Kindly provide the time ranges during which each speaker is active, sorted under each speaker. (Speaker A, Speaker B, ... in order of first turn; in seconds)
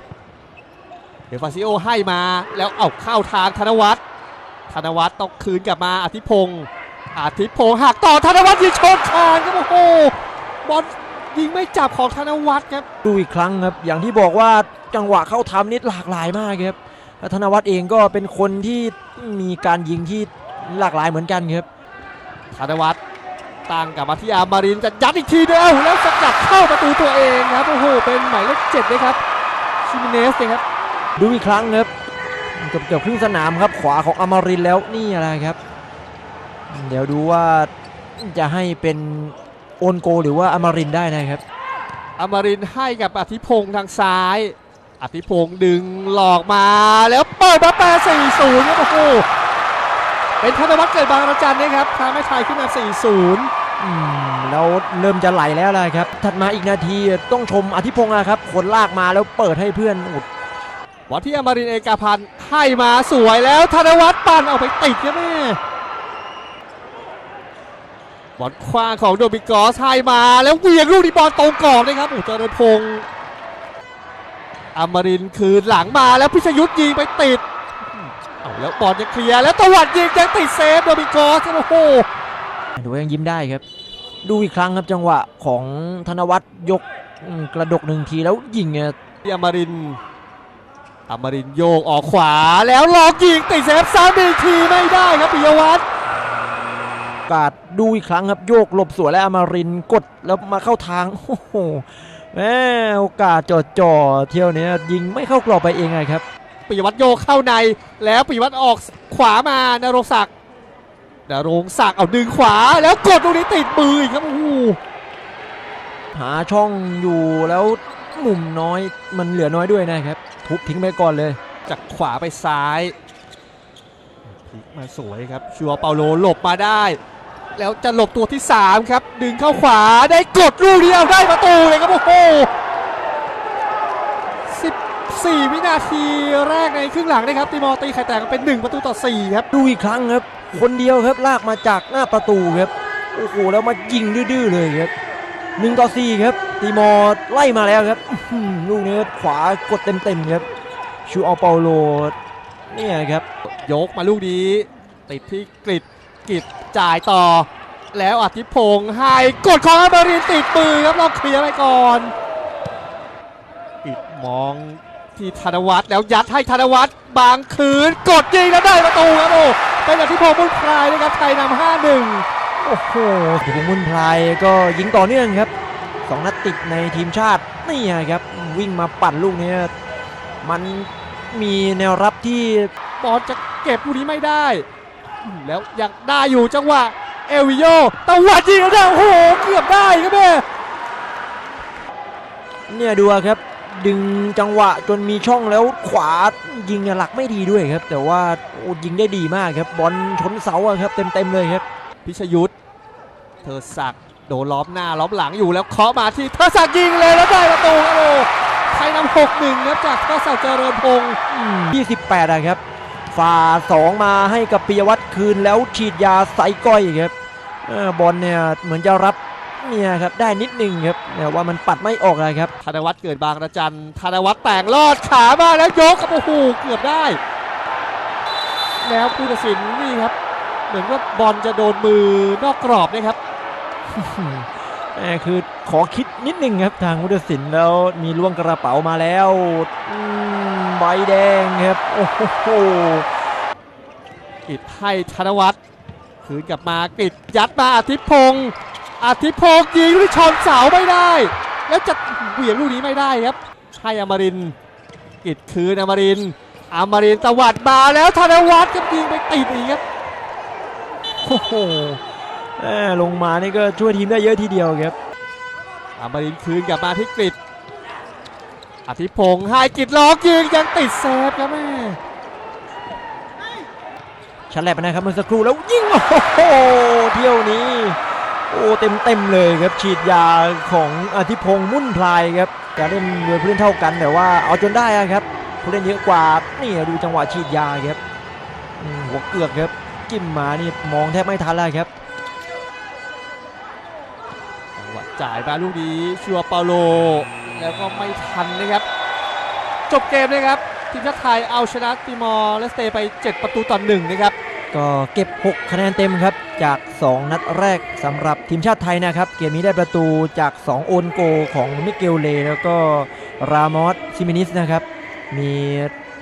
Speaker A: 1.3-4.0, 4.7-12.8, 22.5-23.0, 23.7-29.2, 29.8-30.6, 42.2-49.2, 50.4-53.5, 61.1-65.6, 68.4-73.1, 74.7-82.1, 89.2-90.0, 91.1-95.8, 106.7-110.3, 111.3-114.8, 121.7-122.9, 124.2-127.0, 127.5-132.5, 134.5-139.5, 153.5-162.1, 163.8-172.2, 183.0-184.7, 185.2-190.4, 202.0-202.5, 203.4-211.2, 222.6-227.2, 228.8-230.1, 230.7-233.2, 244.5-245.6, 246.2-254.6, 255.2-259.8, 266.0-267.4, 268.9-272.0, 294.8-298.8, 299.9-304.3
Speaker B: 13.0-21.6, 31.2-31.9, 32.5-35.6, 36.7-41.4, 53.8-60.3, 82.8-83.6, 84.2-88.9, 97.3-106.2, 116.1-121.4, 139.5-144.9, 145.6-150.4, 151.1-152.1, 152.7-153.2, 172.6-175.5, 176.1-179.7, 180.4-182.7, 192.7-201.6, 211.3-212.6, 213.1-217.1, 217.6-222.5, 233.9-243.1, 261.2-262.0, 262.6-264.9, 274.5-278.0, 278.5-288.0, 288.8-291.9, 304.7-315.9